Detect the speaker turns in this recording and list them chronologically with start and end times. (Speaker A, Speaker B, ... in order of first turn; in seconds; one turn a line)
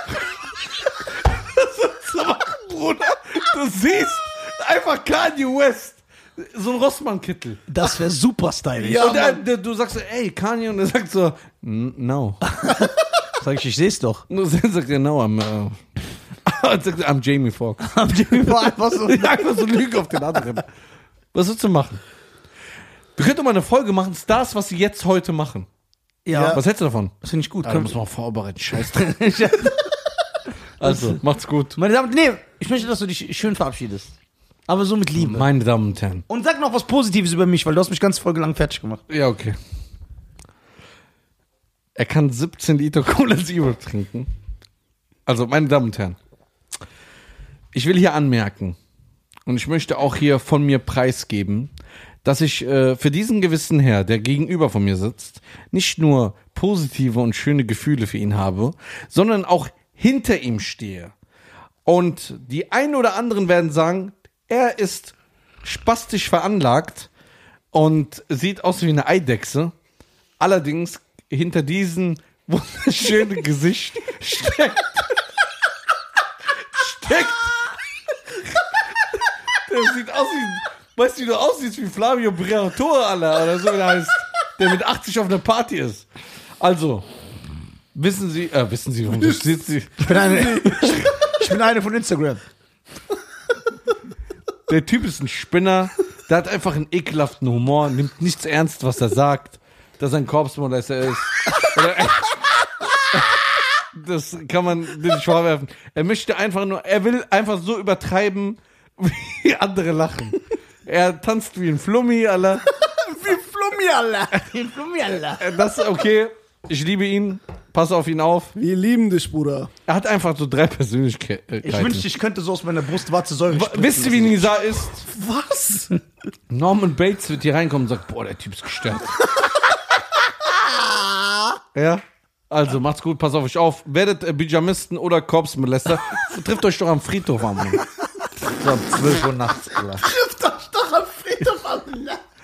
Speaker A: 1.2-7.6
Speaker B: 7.7-9.4
Speaker A: 8.8-12.4
Speaker B: 12.4-14.2
Speaker A: 14.3-15.8
Speaker A: 16.4-17.9
Speaker B: 17.8-19.5
Speaker A: 19.1-20.7
Speaker A: 21.3-22.0
Speaker A: 23.1-25.7
Speaker B: 26.2-26.6
Speaker C: 26.3-26.6
Speaker A: 26.5-29.1
Speaker B: 27.2-27.9
Speaker B: 28.7-29.9
Speaker A: 30.8-31.8
Speaker B: 30.8-31.2
Speaker B: 31.8-34.1
Speaker B: 34.7-35.4
Speaker A: 35.2-36.2
Speaker B: 36.3-39.0
Speaker A: 39.1-39.6
Speaker A: 42.0-44.3
Speaker A: 45.2-46.2
Speaker A: 47.7-48.8
Speaker A: 49.5-51.7
Speaker A: 52.2-61.1
Speaker A: 61.9-67.1
Speaker A: 67.7-69.7
Speaker A: 70.4-75.1
Speaker A: 76.7-77.5
Speaker A: 79.6-86.1
Speaker A: 86.6-87.0
Speaker A: 87.9-91.1
Speaker B: 90.0-92.4
Speaker C: 90.5-90.9
Speaker A: 94.7-112.6
Speaker C: 112.9-114.4
Speaker B: 114.4-115.6
Speaker A: 115.4-118.5
Speaker C: 118.5-119.7
Speaker A: 119.8-122.0
Speaker B: 121.6-124.5
Speaker A: 123.5-125.0
Speaker C: 125.0-125.9
Speaker A: 126.5-129.2
Speaker A: 131.7-137.8
Speaker A: 138.4-140.1
Speaker C: 140.0-142.2